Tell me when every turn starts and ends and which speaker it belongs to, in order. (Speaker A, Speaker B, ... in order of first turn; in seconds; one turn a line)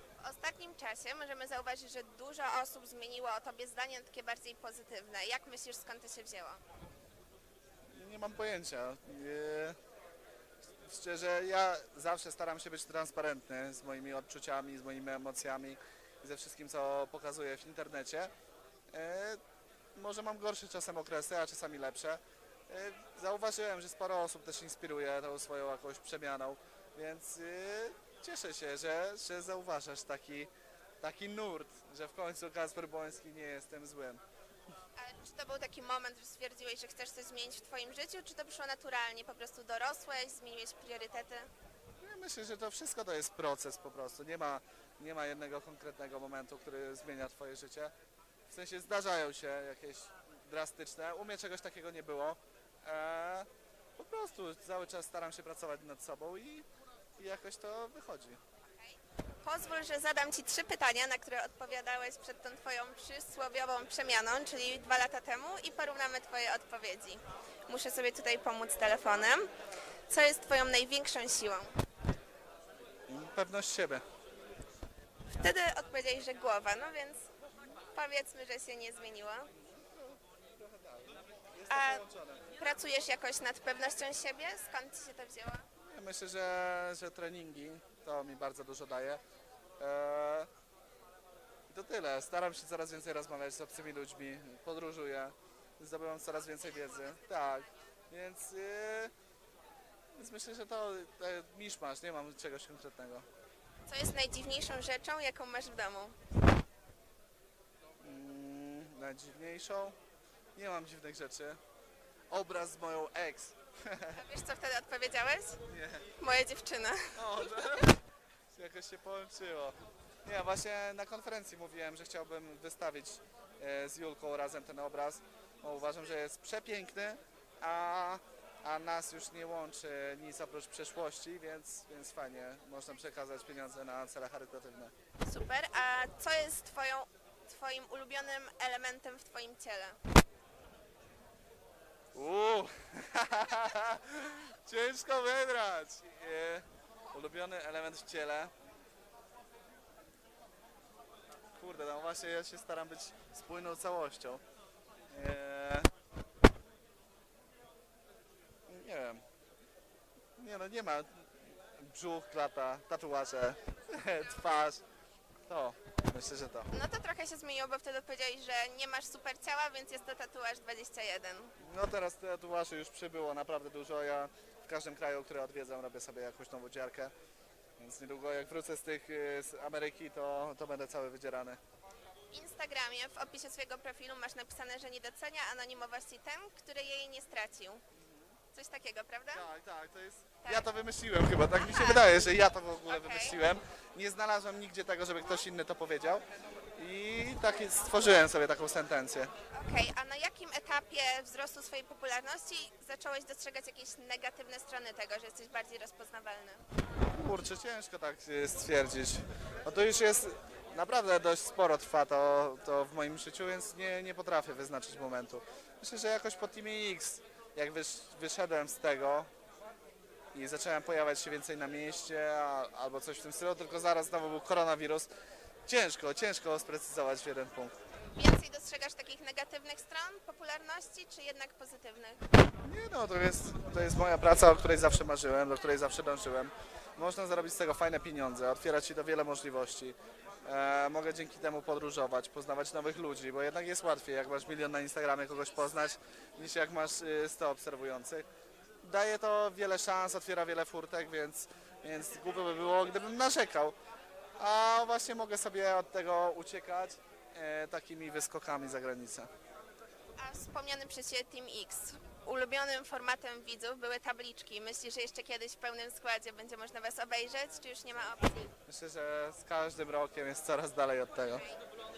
Speaker A: 0.2-6.6
Speaker B: 7.9-9.8
Speaker B: 10.8-18.3
Speaker B: 18.9-19.4
Speaker B: 19.9-34.2
Speaker A: 35.0-41.5
Speaker B: 42.0-47.9
Speaker B: 48.5-58.4
Speaker A: 58.6-69.5
Speaker A: 70.1-71.7
Speaker B: 73.1-74.0
Speaker A: 75.3-77.2
Speaker A: 77.9-79.5
Speaker B: 79.5-82.5
Speaker A: 81.7-85.7
Speaker B: 85.9-89.2
Speaker B: 89.8-90.5
Speaker B: 91.7-99.1
Speaker A: 96.5-97.7
Speaker B: 100.2-103.3
Speaker A: 103.9-106.2
Speaker B: 108.0-110.0
Speaker B: 110.5-111.6
Speaker B: 112.3-114.2
Speaker A: 114.1-115.6
Speaker B: 115.7-116.1
Speaker A: 116.2-117.9
Speaker B: 117.2-118.0
Speaker B: 118.5-134.9
Speaker A: 135.2-140.0
Speaker B: 142.1-148.5
Speaker B: 151.6-154.4
Speaker B: 155.1-155.9
Speaker B: 158.7-159.2
Speaker B: 160.4-164.8
Speaker B: 165.5-166.8
Speaker A: 166.7-171.5
Speaker B: 171.6-177.1
Speaker B: 177.8-181.6
Speaker A: 182.3-187.8
Speaker B: 187.9-188.4
Speaker A: 188.5-189.5
Speaker B: 189.3-196.2
Speaker A: 190.4-190.7
Speaker A: 191.5-192.2
Speaker A: 192.9-193.4
Speaker B: 196.8-199.3
Speaker A: 199.5-206.6
Speaker B: 207.1-219.3
Speaker B: 220.3-225.1
Speaker B: 225.7-227.8
Speaker A: 228.2-232.2
Speaker B: 232.6-248.3
Speaker A: 245.3-246.0
Speaker B: 248.8-253.8
Speaker B: 254.4-259.3
Speaker A: 260.2-268.6
Speaker B: 268.7-271.4
Speaker A: 271.3-271.6